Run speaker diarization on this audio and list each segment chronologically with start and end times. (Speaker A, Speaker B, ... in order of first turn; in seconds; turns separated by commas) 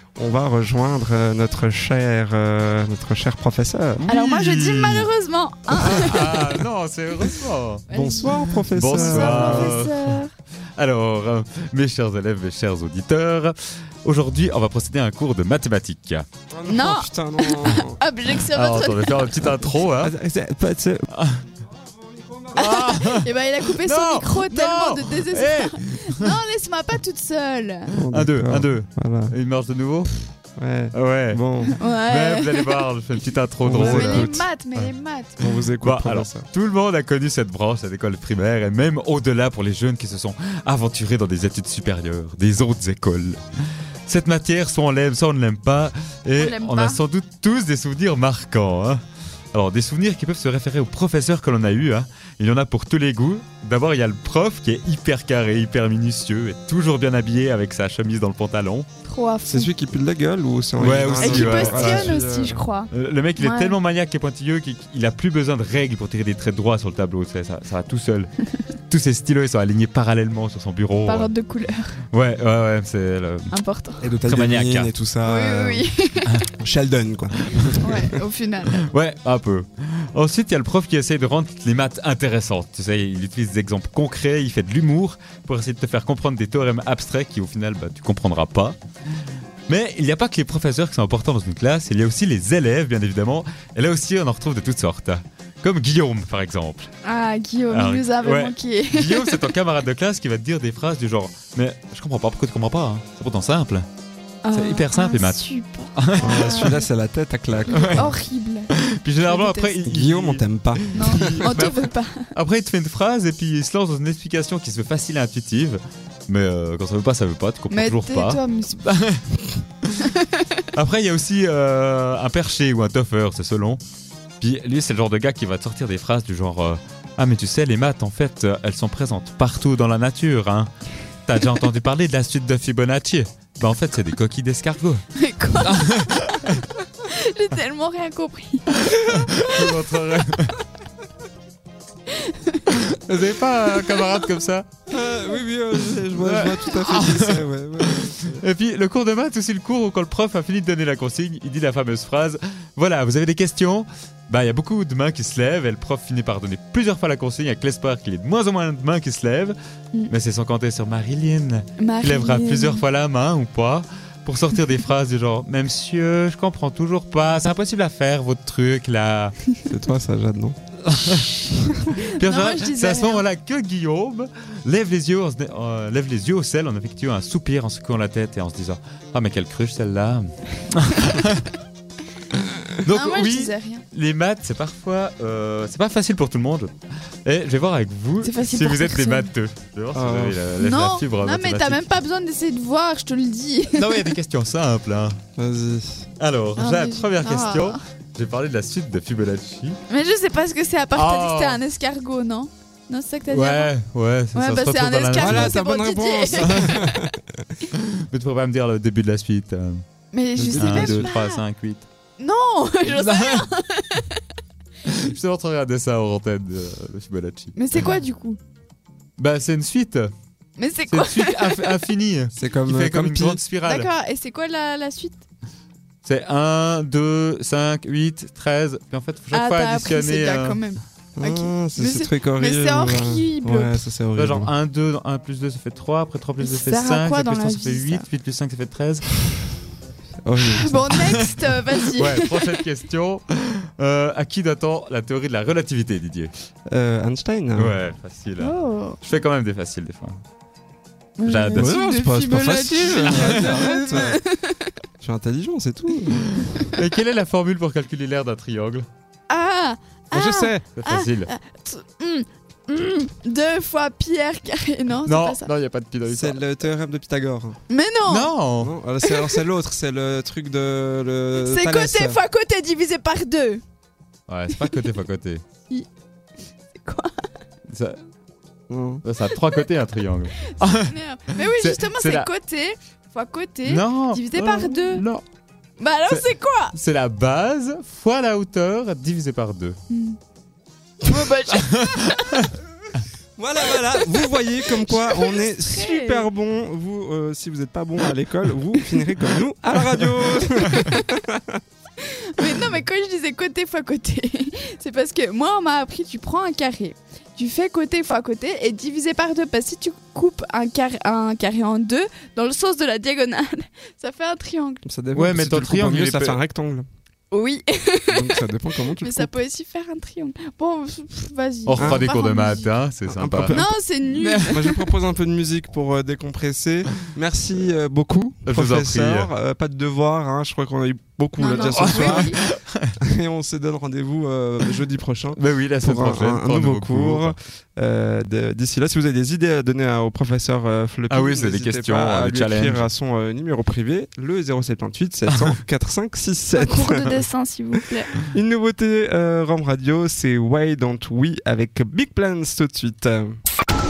Speaker A: 0.2-4.1, Speaker B: 4.0-5.1, Speaker C: 4.1-6.6, Speaker B: 5.7-7.9, Speaker C: 7.9-10.3, Speaker A: 7.9-9.8, Speaker B: 8.7-10.2, Speaker B: 10.8-16.3, Speaker A: 16.5-18.0, Speaker C: 16.7-19.7, Speaker B: 18.5-20.1, Speaker A: 20.0-21.1, Speaker B: 21.1-21.4, Speaker B: 22.5-26.4, Speaker C: 22.5-27.9, Speaker A: 27.9-29.3, Speaker B: 28.1-30.1, Speaker A: 30.6-31.8, Speaker B: 30.9-34.9, Speaker C: 31.7-32.9, Speaker A: 33.6-34.5, Speaker C: 33.7-35.5, Speaker A: 35.4-36.5, Speaker B: 35.8-43.4, Speaker B: 44.1-49.0, Speaker C: 46.4-47.0, Speaker B: 49.5-58.9, Speaker C: 59.0-59.7, Speaker A: 59.5-62.6, Speaker B: 60.8-62.2, Speaker C: 61.2-63.8, Speaker B: 62.9-68.3, Speaker B: 68.9-71.3, Speaker C: 71.0-72.0, Speaker B: 72.1-73.5, Speaker C: 73.5-74.1, Speaker A: 74.0-75.9, Speaker B: 74.2-74.9, Speaker C: 75.2-76.4, Speaker A: 76.6-78.0, Speaker C: 77.8-78.9, Speaker B: 78.7-88.8, Speaker B: 89.7-96.9, Speaker C: 97.0-99.5, Speaker B: 97.7-103.9, Speaker C: 104.4-106.9, Speaker B: 104.5-106.8, Speaker A: 106.2-108.1, Speaker B: 107.5-108.2, Speaker C: 107.7-108.7, Speaker B: 108.7-120.1, Speaker C: 109.2-109.8, Speaker A: 109.9-111.5, Speaker C: 110.9-112.3, Speaker C: 117.7-118.9, Speaker C: 120.1-120.5, Speaker B: 120.8-123.8, Speaker B: 124.4-130.7, Speaker B: 131.3-135.0, Speaker C: 135.2-136.2, Speaker B: 135.6-136.7, Speaker C: 137.0-139.8, Speaker B: 138.9-140.6, Speaker C: 142.1-142.8, Speaker B: 142.7-144.7, Speaker A: 144.9-148.4, Speaker B: 146.0-159.6, Speaker B: 160.1-169.3, Speaker C: 161.8-162.8, Speaker A: 169.7-170.6, Speaker B: 170.8-181.5, Speaker C: 171.9-173.2, Speaker B: 182.3-186.7, Speaker C: 182.9-183.8, Speaker B: 187.3-191.8, Speaker C: 188.2-189.3, Speaker A: 189.9-190.4, Speaker C: 190.6-194.2, Speaker B: 193.7-195.2, Speaker A: 195.4-196.1, Speaker B: 196.2-199.8, Speaker C: 196.6-197.8, Speaker C: 199.9-203.7, Speaker B: 200.9-201.6, Speaker B: 203.3-205.6, Speaker C: 204.3-207.1, Speaker A: 205.2-207.2, Speaker B: 206.4-206.9, Speaker B: 207.7-209.8, Speaker C: 210.1-211.4, Speaker A: 210.4-211.1, Speaker B: 210.6-211.9, Speaker C: 212.2-214.2, Speaker B: 212.8-213.5, Speaker B: 214.8-217.6, Speaker C: 217.6-218.4, Speaker B: 219.2-220.1, Speaker C: 220.6-221.8, Speaker B: 220.9-223.9, Speaker A: 222.3-223.4, Speaker C: 223.6-225.2, Speaker B: 226.1-230.6, Speaker C: 229.3-233.8, Speaker A: 231.2-234.5, Speaker B: 234.2-239.1, Speaker C: 236.4-238.1, Speaker A: 240.2-240.9, Speaker C: 240.4-242.6, Speaker B: 241.0-241.3, Speaker B: 241.9-246.3, Speaker A: 246.7-247.8, Speaker B: 247.6-250.2, Speaker C: 248.4-249.0, Speaker C: 251.2-254.7, Speaker B: 251.2-251.8, Speaker A: 251.6-254.2, Speaker B: 253.1-254.1, Speaker A: 255.0-256.4, Speaker B: 256.4-258.9, Speaker C: 259.3-265.5, Speaker A: 260.1-260.6, Speaker B: 260.8-261.3, Speaker B: 265.1-266.4, Speaker A: 266.1-267.6, Speaker C: 267.7-268.4, Speaker B: 268.1-268.7, Speaker A: 268.6-272.2, Speaker C: 269.0-269.4, Speaker C: 271.4-273.6, Speaker B: 274.3-275.4, Speaker C: 274.5-274.9, Speaker C: 276.8-277.1, Speaker B: 277.7-278.0, Speaker A: 278.7-279.0, Speaker B: 279.0-282.3, Speaker C: 280.5-285.1, Speaker B: 283.6-285.2, Speaker C: 285.8-286.8, Speaker B: 286.1-289.8, Speaker C: 289.9-290.2, Speaker C: 291.0-292.4, Speaker B: 291.5-292.5, Speaker A: 293.4-301.6, Speaker C: 293.7-294.1, Speaker C: 294.8-296.3, Speaker C: 302.0-314.8, Speaker A: 314.9-316.9, Speaker B: 315.1-316.4, Speaker C: 317.3-318.4, Speaker A: 318.1-319.4, Speaker C: 319.0-322.7, Speaker B: 321.7-323.6, Speaker A: 321.8-322.1, Speaker A: 323.1-323.8, Speaker C: 323.5-324.7, Speaker B: 324.1-324.8, Speaker A: 324.4-332.4, Speaker B: 328.4-329.3, Speaker C: 331.4-332.4, Speaker B: 331.6-332.9, Speaker A: 333.0-347.2, Speaker B: 335.3-337.4, Speaker B: 341.1-342.9, Speaker B: 345.3-345.6, Speaker C: 346.6-348.1, Speaker A: 348.2-353.4